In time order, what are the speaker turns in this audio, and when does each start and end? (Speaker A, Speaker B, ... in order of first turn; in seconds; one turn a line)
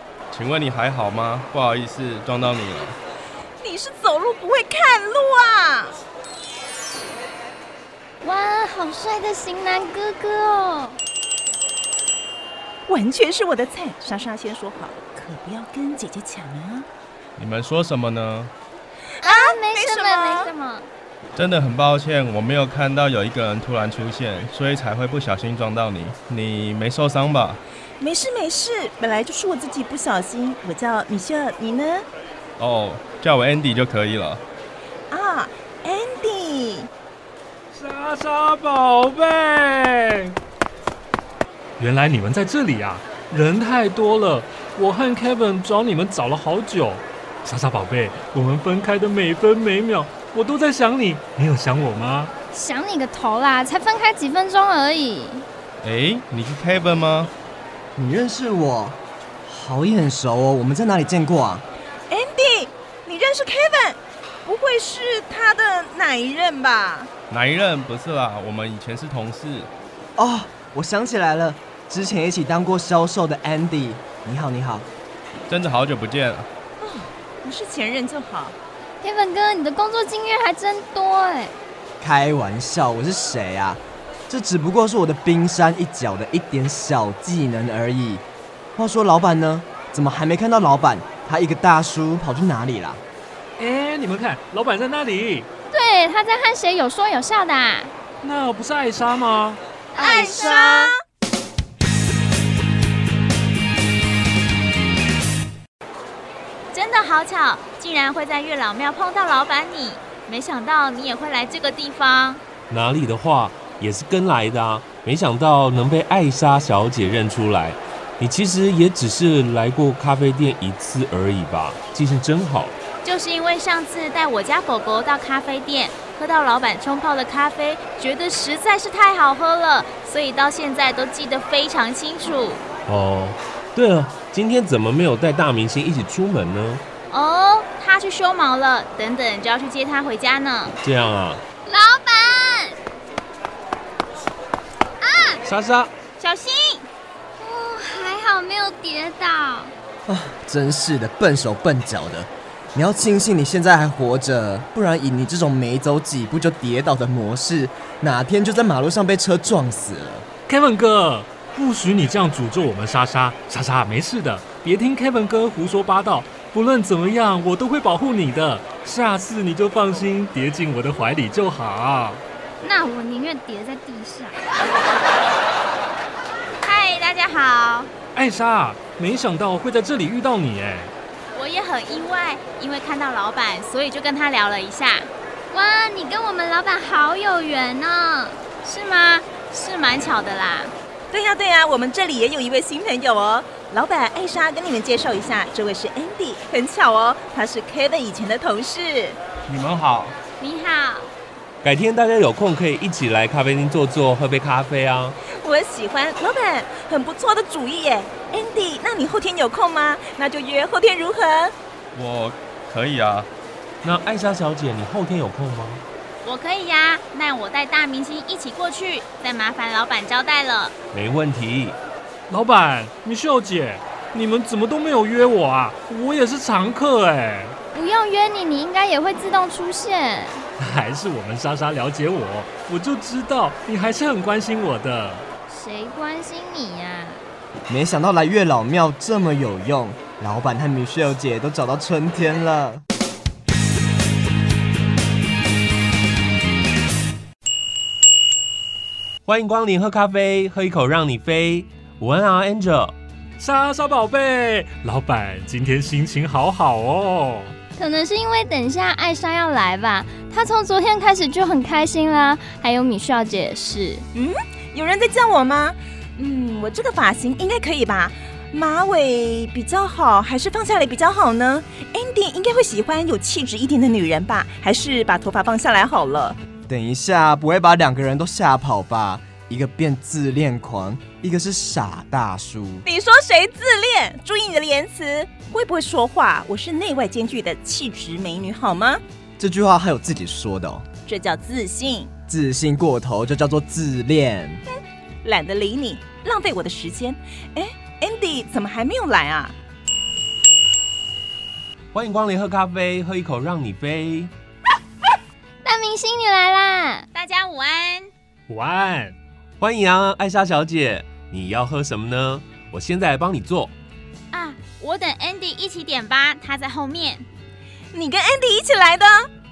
Speaker A: 0.3-3.0
Speaker B: 3.6-6.0
Speaker C: 8.2-11.0
Speaker B: 12.9-16.9
Speaker A: 17.4-18.5
Speaker B: 19.2-20.5
Speaker C: 19.2-20.9
Speaker A: 21.4-27.6
Speaker B: 28.0-32.0
Speaker A: 32.6-34.4
Speaker B: 35.1-36.9
Speaker D: 37.7-40.3
Speaker D: 41.8-52.3
Speaker C: 52.5-55.5
Speaker A: 55.8-57.3
Speaker E: 58.0-61.7
Speaker B: 62.1-67.1
Speaker A: 67.3-69.7
Speaker E: 70.2-74.9
Speaker A: 75.5-76.5
Speaker B: 76.8-78.5
Speaker C: 79.0-81.5
Speaker E: 82.0-88.2
Speaker E: 88.8-93.0
Speaker D: 93.6-95.5
Speaker C: 95.7-97.9
Speaker D: 98.2-99.6
Speaker B: 100.0-101.0
Speaker D: 100.2-100.7
Speaker F: 106.7-112.4
Speaker G: 112.7-122.8
Speaker F: 123.0-132.6
Speaker G: 132.9-136.8
Speaker F: 137.1-140.8
Speaker G: 140.8-141.4
Speaker C: 141.7-142.8
Speaker C: 145.0-145.4
Speaker G: 145.4-145.9
Speaker F: 146.2-146.9
Speaker C: 147.4-149.7
Speaker E: 150.1-160.2
Speaker D: 160.5-172.2
Speaker C: 172.6-174.4
Speaker F: 176.6-177.9
Speaker D: 178.1-180.9
Speaker F: 181.3-185.1
Speaker C: 185.5-188.4
Speaker F: 188.6-190.7
Speaker B: 191.1-199.2
Speaker A: 199.4-200.2
Speaker C: 200.4-201.1
Speaker G: 201.6-205.2
Speaker B: 205.4-211.5
Speaker A: 211.9-213.3
Speaker G: 213.8-215.8
Speaker F: 216.2-220.7
Speaker G: 220.9-221.8
Speaker D: 222.3-227.6
Speaker C: 227.7-230.4
Speaker D: 230.6-235.2
Speaker C: 235.5-237.2
Speaker E: 237.7-242.8
Speaker G: 249.2-252.9
Speaker D: 253.4-257.5
Speaker C: 257.8-264.1
Speaker B: 264.1-276.4
Speaker E: 276.7-282.8
Speaker B: 282.8-289.0
Speaker E: 289.4-290.8
Speaker B: 291.1-292.1
Speaker E: 292.3-294.6
Speaker B: 295.2-299.5
Speaker G: 301.9-304.3
Speaker C: 305.6-307.1
Speaker F: 307.1-308.1
Speaker D: 308.5-309.1
Speaker G: 309.6-313.7
Speaker F: 314.3-317.2
Speaker B: 317.9-319.3